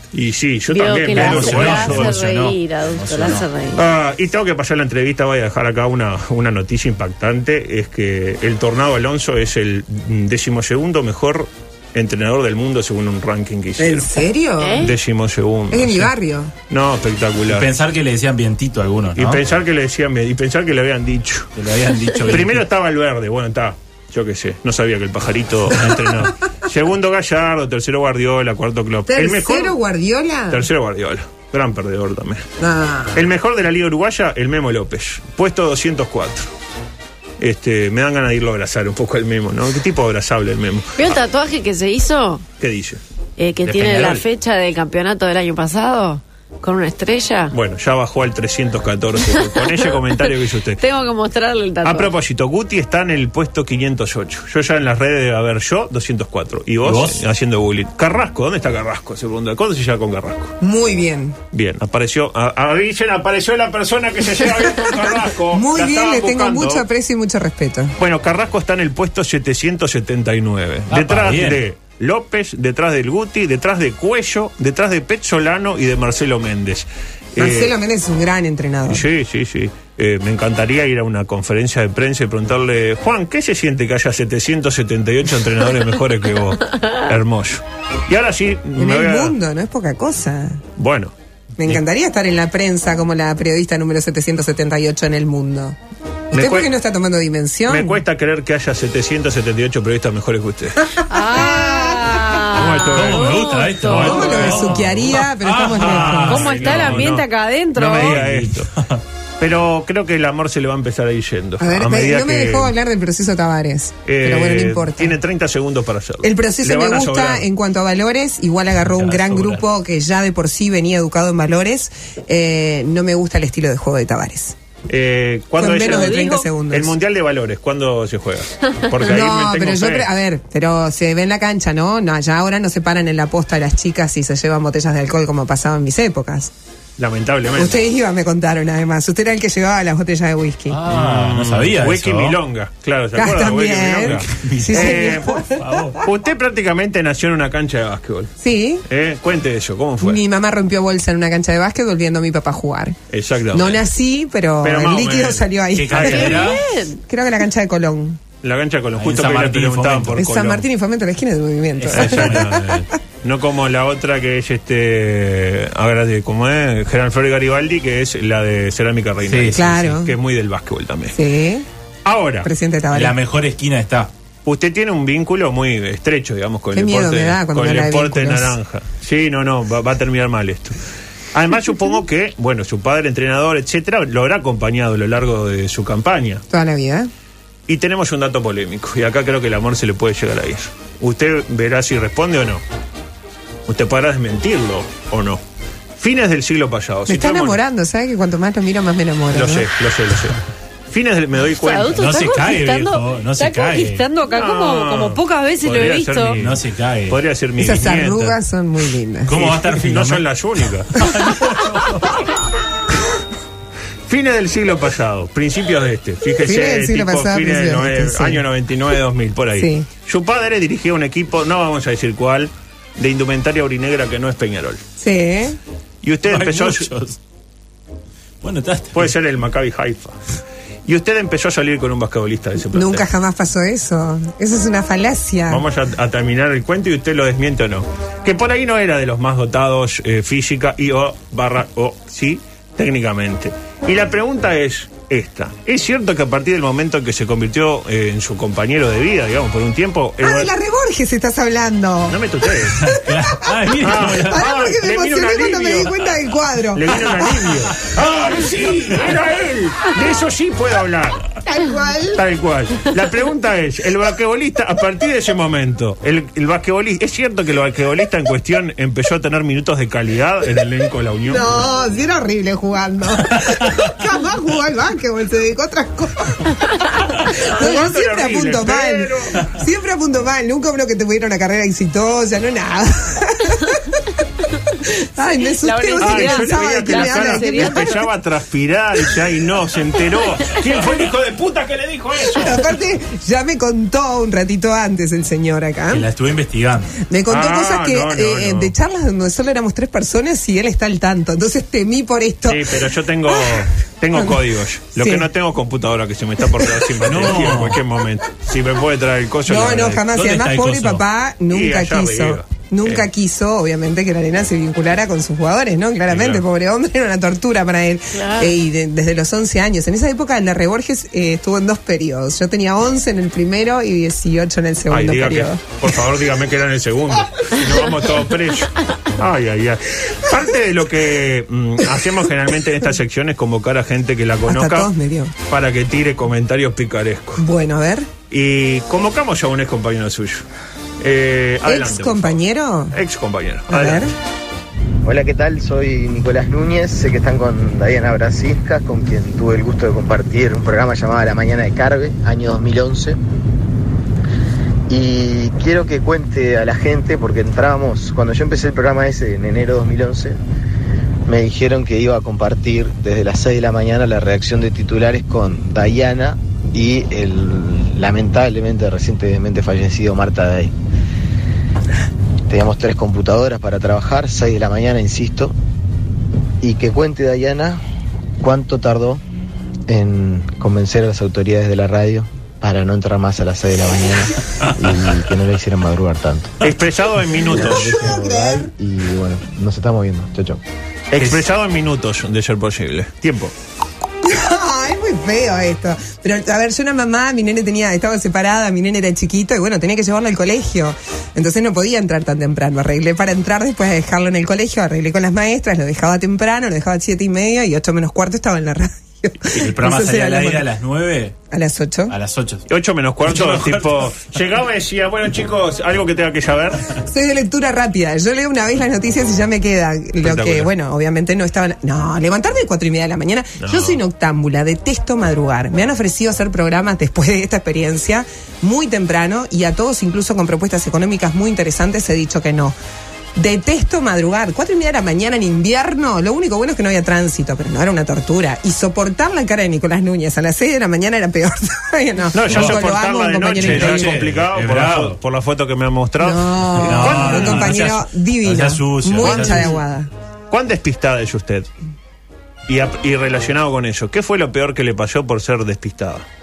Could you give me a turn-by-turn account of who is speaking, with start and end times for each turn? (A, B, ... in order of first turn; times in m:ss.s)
0:00.1-0:02.2 A
0:00.7-0:03.8 B
0:01.1-0:03.5 C
0:03.8-0:14.1 A
0:13.8-0:14.8 D
0:14.6-0:14.9 B
0:14.8-0:16.1 A
0:15.7-0:16.5 D
0:16.7-0:17.7 A
0:17.5-0:19.4 C
0:19.2-0:21.5 A
0:21.6-0:22.6 C
0:22.2-0:29.8 A
0:25.8-0:26.3 C
0:29.1-0:30.7 D
0:30.5-0:32.4 A
0:32.6-0:33.2 D
0:33.1-0:36.5 A
0:37.4-0:41.2 A
0:41.0-0:42.4 B
0:42.6-0:43.0 A
0:43.4-0:47.5 B
0:43.6-0:44.2 C
0:47.5-0:50.8 A
0:50.8-0:52.1 B
0:51.8-1:00.6 A
0:56.8-0:57.2 C
1:00.6-1:01.4 D
1:01.5-1:06.8 A
1:05.5-1:07.9 D
1:08.0-1:17.7 A
1:10.9-1:11.6 C
1:17.4-1:19.0 D
1:18.9-1:29.3 A
1:28.8-1:30.6 D
1:30.8-1:31.1 A
1:31.6-1:35.8 D
1:36.3-1:38.0 D
1:36.3-1:36.7 A
1:37.7-1:41.0 A
1:41.1-1:44.2 B
1:42.5-1:44.9 A
1:42.9-1:47.1 C
1:43.9-1:46.4 D
1:45.8-1:48.7 A
1:46.3-1:48.2 B
1:47.9-1:49.0 C
1:49.4-1:52.7 A
1:51.6-1:55.2 D
1:54.0-1:57.4 A
1:56.2-2:04.5 D
1:58.9-1:59.6 C
2:04.9-2:10.1 A
2:05.6-2:06.9 D
2:05.8-2:06.4 B
2:09.0-2:16.5 D
2:17.0-2:17.8 A
2:17.6-2:20.8 D
2:20.7-2:22.4 C
2:20.9-2:25.4 A
2:23.2-2:25.8 D
2:24.2-2:26.0 C
2:26.0-2:28.3 A
2:28.4-2:28.8 D
2:28.9-2:30.2 A
2:30.0-2:33.0 D
2:33.1-2:33.8 A
2:33.5-2:36.4 D
2:34.6-2:36.5 A
2:35.7-2:36.6 C
2:36.1-2:37.0 B
2:37.1-2:38.2 D
2:38.4-2:40.6 A
2:39.0-2:40.2 C
2:40.2-2:42.8 D
2:41.8-2:42.9 C
2:41.9-2:51.2 A
2:49.2-2:49.8 C
2:49.5-2:50.1 D
2:51.1-2:51.7 D
2:52.0-2:52.5 A
2:52.4-2:53.2 D
2:52.9-2:54.1 C
2:54.4-3:00.8 A
2:56.7-2:58.5 D
3:01.3-3:06.4 A
3:06.5-3:07.1 D
3:07.7-3:12.6 A
3:13.7-3:15.4 A
3:16.0-3:17.6 A
3:17.1-3:19.7 D
3:19.3-3:21.9 A
3:21.6-3:26.4 B
3:21.9-3:24.0 C
3:24.3-3:28.4 A
3:26.4-3:27.2 C
3:27.6-3:29.4 D
3:29.3-3:30.3 C
3:29.3-3:31.0 A
3:30.9-3:32.2 C
3:34.1-3:44.8 A
3:36.4-3:38.4 D
3:39.6-3:39.9 D
3:45.0-3:45.6 D
3:46.0-3:46.9 A
3:46.2-3:47.2 C
3:48.4-3:49.1 C
3:48.9-3:50.2 A
3:50.9-3:53.0 A
3:52.7-3:55.6 D
3:55.5-4:10.5 A
4:10.2-4:12.2 D
4:12.1-4:12.8 A
4:12.7-4:17.3 D
4:12.8-4:14.4 C
4:13.8-4:15.9 A
4:16.7-4:21.2 A
4:21.4-4:22.2 D
4:22.1-4:31.6 A
4:31.2-4:36.6 D
4:37.2-4:44.0 D
4:37.4-4:39.4 A
4:44.8-4:48.0 D
4:45.6-4:48.0 B
4:46.0-4:52.6 A
4:52.4-4:56.1 D
4:55.9-4:57.0 C
4:57.1-5:04.4 D
4:57.3-4:58.7 A
5:02.4-5:10.1 A
5:05.0-5:05.3 D
5:06.6-5:06.9 D
5:07.1-5:07.8 C
5:09.5-5:25.8 D
5:10.1-5:11.0 C
5:11.5-5:13.1 A
5:16.1-5:16.4 A
5:18.1-5:18.5 B
5:24.9-5:34.9 A
5:34.5-5:35.3 D
5:35.5-5:37.4 A
5:37.4-5:38.1 D
5:38.3-5:40.4 A
5:41.0-5:42.4 A
5:41.6-5:43.0 D
5:42.9-5:44.1 A
5:43.7-5:44.1 D
5:45.0-5:53.2 E
5:54.9-6:00.4 E
6:01.3-6:10.7 E
6:12.5-6:15.5 E
6:16.6-6:17.8 E
6:18.4-6:19.2 E
6:19.9-6:26.6 E
6:26.6-6:28.0 A
6:27.4-6:30.6 E
6:27.6-6:28.7 D
6:31.1-6:33.5 A
6:31.2-6:31.4 C
6:34.2-6:50.7 D
6:49.5-6:51.4 C
6:51.5-6:52.2 D
6:52.1-6:52.6 C
6:52.7-6:56.9 A
6:53.3-6:53.9 C
6:57.0-7:12.7 D
7:00.2-7:00.7 A
7:03.6-7:04.0 A
7:13.3-7:24.2 D
7:22.3-7:27.7 A
7:22.5-7:22.8 C
7:23.6-7:25.2 C
7:26.2-7:30.1 D
7:26.8-7:29.8 C
7:29.2-7:29.8 A
7:30.5-7:31.7 A
7:32.7-7:36.2 A